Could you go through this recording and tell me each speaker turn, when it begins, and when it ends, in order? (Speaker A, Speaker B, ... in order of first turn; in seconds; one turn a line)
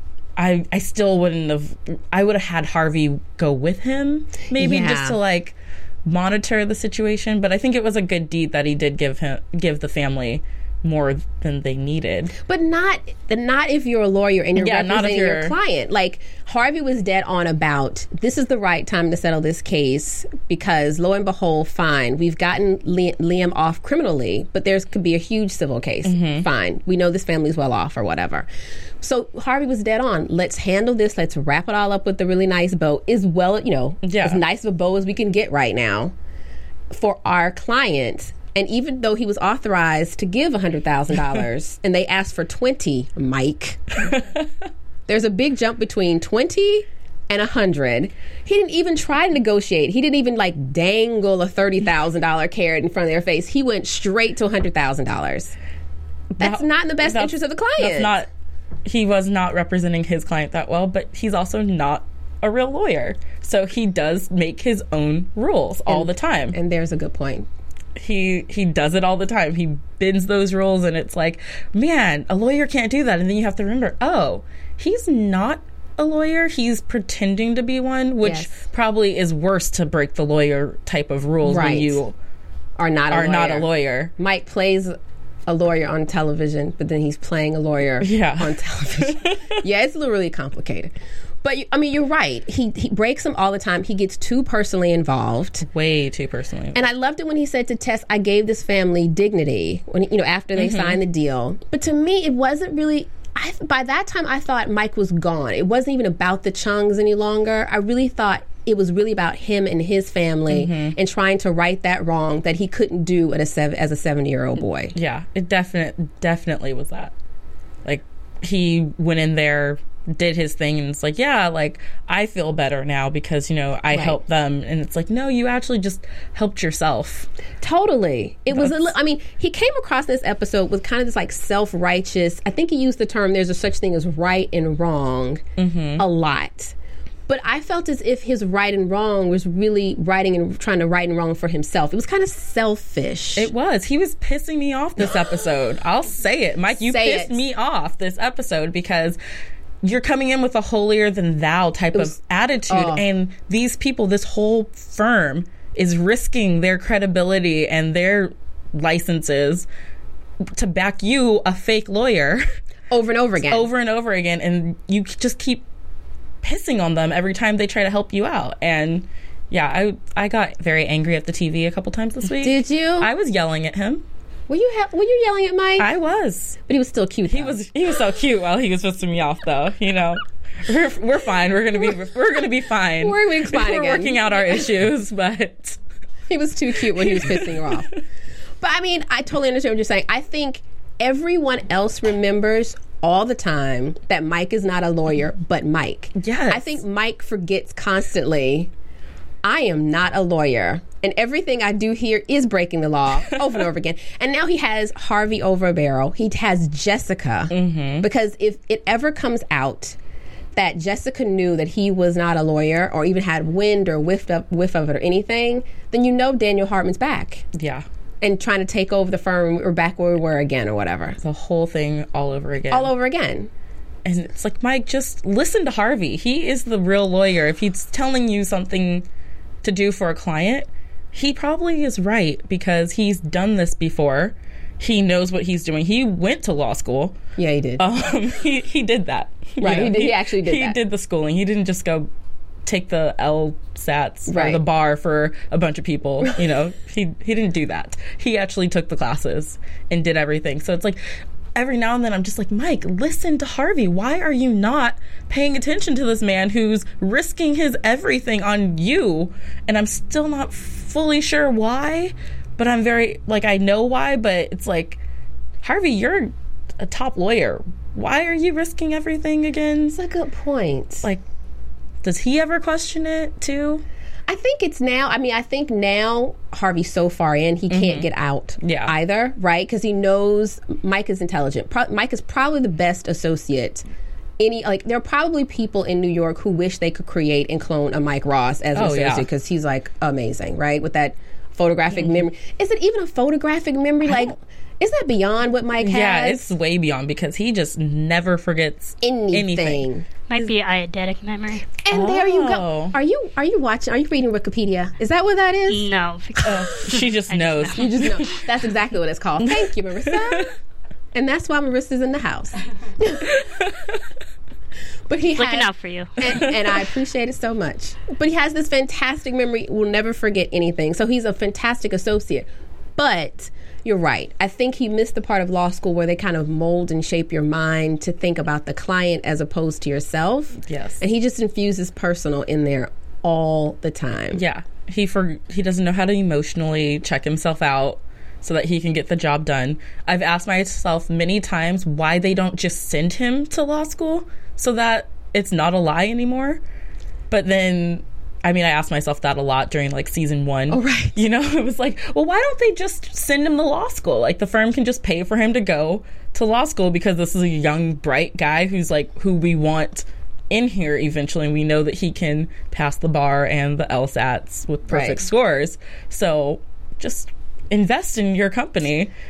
Speaker A: 0.4-12.3
Speaker B: 4.5-5.2
Speaker B: 12.4-28.5
Speaker A: 14.6-15.6
Speaker A: 26.1-26.5
Speaker B: 29.0-36.1
Speaker A: 34.0-34.4
Speaker B: 36.9-44.1
Speaker A: 44.1-44.5
Speaker B: 45.1-55.5
Speaker A: 56.3-58.3
Speaker B: 56.4-58.1
Speaker A: 58.9-66.6
Speaker B: 65.9-67.5
Speaker A: 68.0-82.2
Speaker B: 78.2-78.5
Speaker B: 81.4-82.0
Speaker B: 82.8-85.0
Speaker A: 83.1-84.1
Speaker B: 85.5-95.7
Speaker A: 88.0-89.6
Speaker A: 95.7-96.8
Speaker B: 96.7-114.9
Speaker A: 100.6-101.0
Speaker A: 110.5-111.0
Speaker A: 114.9-117.1
Speaker A: 117.8-127.3
Speaker B: 123.9-124.2
Speaker B: 127.6-135.4
Speaker A: 128.5-128.9
Speaker A: 135.6-136.1
Speaker B: 136.0-136.8
Speaker B: 137.3-143.5
Speaker A: 143.4-149.2
Speaker B: 146.8-147.4
Speaker A: 149.8-159.7
Speaker B: 152.7-153.1
Speaker A: 160.6-162.4
Speaker B: 162.9-163.7
Speaker A: 163.4-165.6
Speaker A: 166.4-174.0
Speaker B: 172.3-173.1
Speaker B: 174.5-175.9
Speaker A: 175.8-176.6
Speaker B: 176.7-177.6
Speaker A: 177.3-185.8
Speaker B: 183.0-184.7
Speaker B: 186.3-187.9
Speaker A: 187.0-187.6
Speaker B: 188.6-198.7
Speaker A: 196.2-196.8
Speaker B: 199.4-210.0
Speaker A: 207.5-208.1
Speaker B: 210.6-217.4
Speaker A: 217.5-217.8
Speaker B: 218.2-221.2
Speaker A: 221.2-222.9
Speaker B: 222.7-223.5
Speaker A: 224.1-229.1
Speaker A: 229.6-237.2
Speaker B: 237.4-237.8
Speaker A: 237.8-242.1
Speaker B: 239.6-240.8
Speaker A: 242.7-251.0
Speaker B: 244.3-244.6
Speaker A: 251.6-265.0
Speaker A: 265.6-270.0
Speaker B: 269.9-271.1
Speaker A: 272.0-273.8
Speaker B: 274.3-283.9
Speaker A: 277.7-278.1
Speaker A: 278.6-278.9
Speaker B: 284.4-296.5
Speaker A: 288.8-289.3
Speaker A: 292.0-292.2
Speaker A: 294.1-294.4
Speaker A: 295.8-299.9
Speaker B: 299.0-300.5
Speaker C: 300.3-301.7
Speaker B: 301.9-305.9
Speaker A: 301.9-303.0
Speaker C: 305.7-307.9
Speaker A: 306.4-308.4
Speaker B: 307.8-310.5
Speaker A: 309.4-310.5
Speaker B: 311.1-313.3
Speaker A: 313.4-314.0
Speaker B: 315.1-334.4
Speaker C: 315.4-316.5
Speaker A: 330.7-331.0
Speaker A: 334.3-346.6
Speaker A: 347.3-369.1
Speaker B: 350.7-351.2
Speaker B: 364.9-365.2